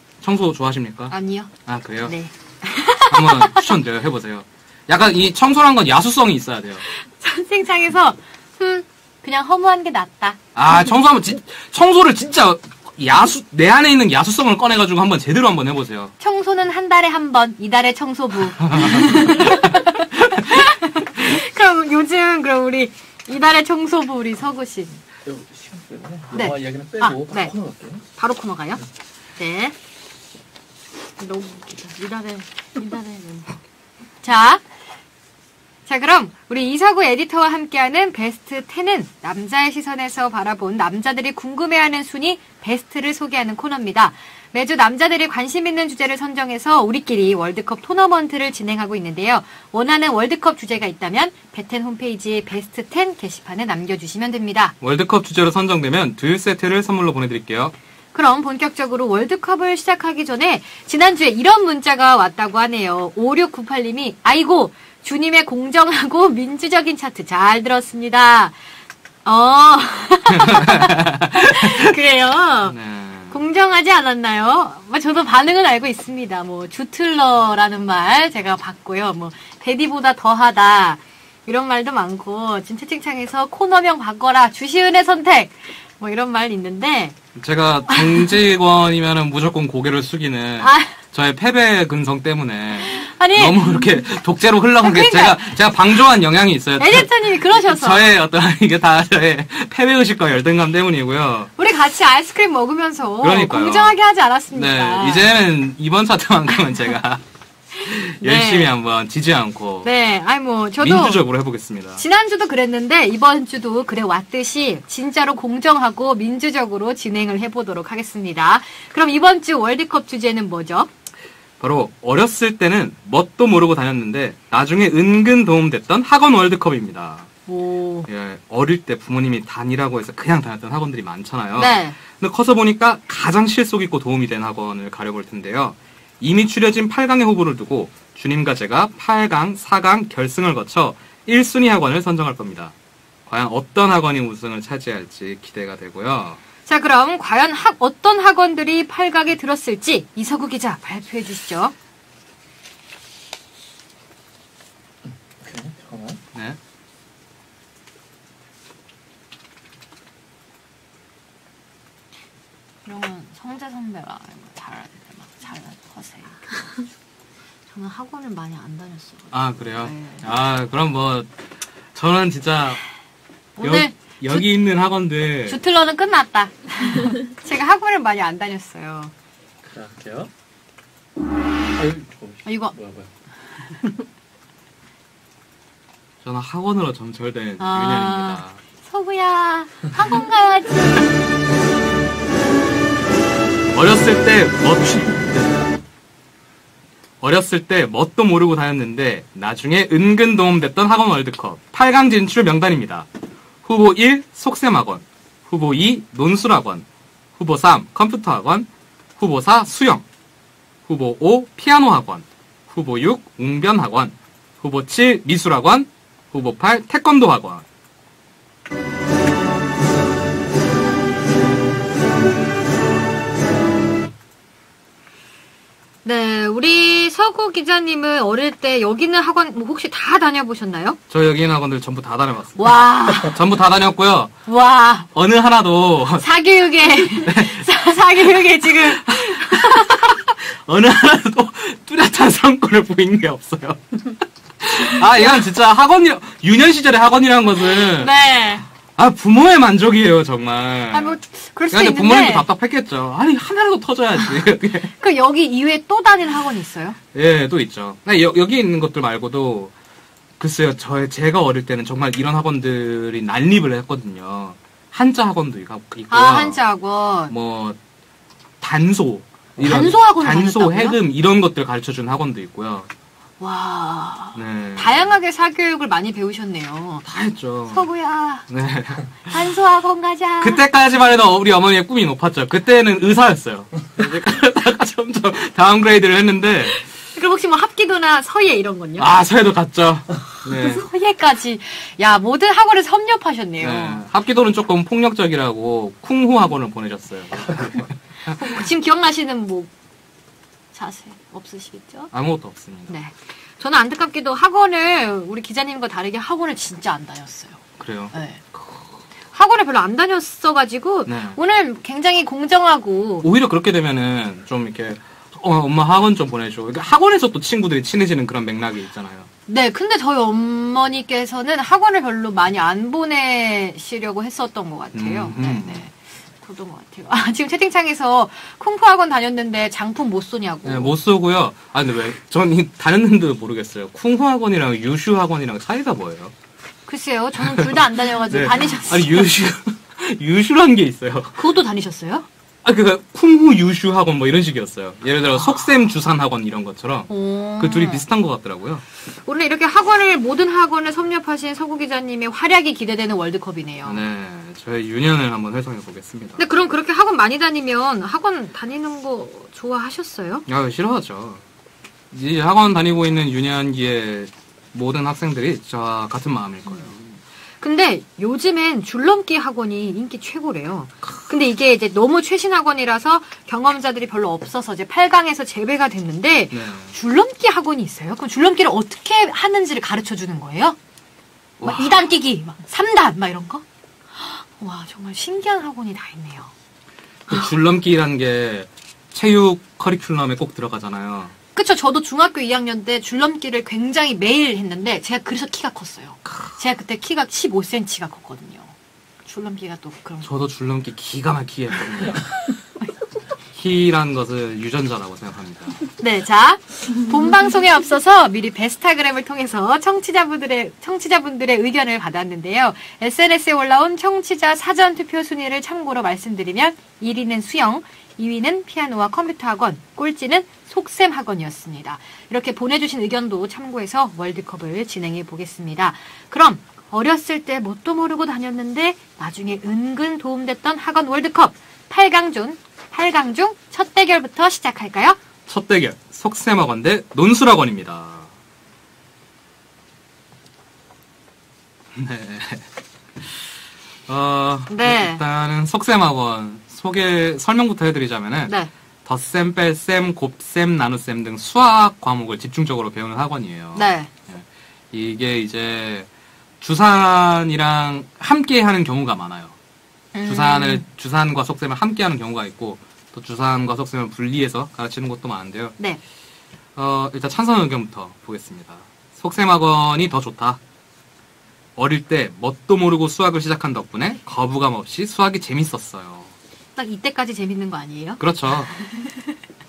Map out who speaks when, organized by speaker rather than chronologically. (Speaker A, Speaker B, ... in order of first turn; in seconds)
Speaker A: 0.2-2.1, 3.1-6.8, 10.5-16.1, 18.6-20.3, 54.8-57.7, 70.3-71.9, 72.7-73.4, 87.3-101.5, 103.2-104.0, 104.5-107.2, 107.8-109.9, 110.8-112.0, 121.6-127.3, 128.1-142.7, 143.2-146.4, 169.3-171.3, 171.9-172.8, 173.6-175.6, 186.2-188.6, 193.7-195.5, 197.2-203.1, 203.7-206.8, 207.4-210.0, 210.9-217.6, 231.1-234.3, 235.1-236.3, 237.2-237.7, 239.0-244.0, 244.6-248.1, 248.9-251.2, 251.7-254.9, 257.1-259.7, 260.4-266.6, 267.3-267.8, 268.6-272.9, 274.3-275.1, 277.0-277.9, 278.5-279.3, 280.4-286.8, 289.0-290.8, 293.6-298.4, 302.1-303.0, 307.8-308.9, 311.1-311.4, 313.2-319.3, 324.9-325.8, 330.6-336.3, 338.3-341.4, 342.6-348.8, 353.9-356.5, 360.5-361.4, 362.1-367.0, 376.5-376.9, 381.6-381.9, 387.3-391.3, 400.2-402.3, 403.5-405.8, 435.5-438.3, 441.9-442.6, 443.2-443.5, 444.1-456.1, 456.6-459.5, 460.2-465.8, 466.8-470.6, 471.8-476.3, 478.2-478.7
Speaker B: 1.1-1.5, 2.0-3.6, 6.9-10.4, 16.2-24.9, 26.3-27.5, 28.1-28.8, 29.4-29.7, 31.2-33.5, 34.2-34.6, 35.9-54.7, 58.1-68.6, 69.2-72.8, 73.3-87.2, 87.9-88.2, 90.6-90.9, 92.8-93.6, 94.8-95.5, 96.8-98.0, 101.6-105.2, 108.2-108.7, 109.8-111.2, 112.0-120.9, 127.5-128.1, 131.6-131.9, 146.7-151.7, 162.8-166.4, 167.7-170.2, 173.6-174.5, 175.5-179.1, 182.4-182.7, 187.6-191.0, 226.0-231.0, 232.6-233.4, 234.5-235.1, 236.2-240.0, 245.1-245.4, 248.0-248.6, 250.9-252.4, 255.0-257.0, 266.1-267.3, 269.6-271.0, 273.4-277.0, 277.7-278.4, 279.3-280.6, 286.7-289.1, 290.5-294.0, 298.2-299.7, 300.7-302.1, 302.9-307.6, 308.1-308.4, 309.3-313.2, 319.5-330.9, 336.9-339.3, 341.4-342.2, 345.4-345.6, 347.1-348.0, 349.1-354.0, 356.4-360.4, 366.7-366.9, 367.6-380.8, 381.6-383.6, 384.1-386.5, 391.6-398.7, 399.2-400.3, 406.0-435.2, 444.7-445.2, 453.7-454.1, 460.1-460.8, 476.8-478.2, 478.7-479.1
Speaker C: 25.2-28.0, 155.1-156.2, 179.6-180.3, 181.7-183.1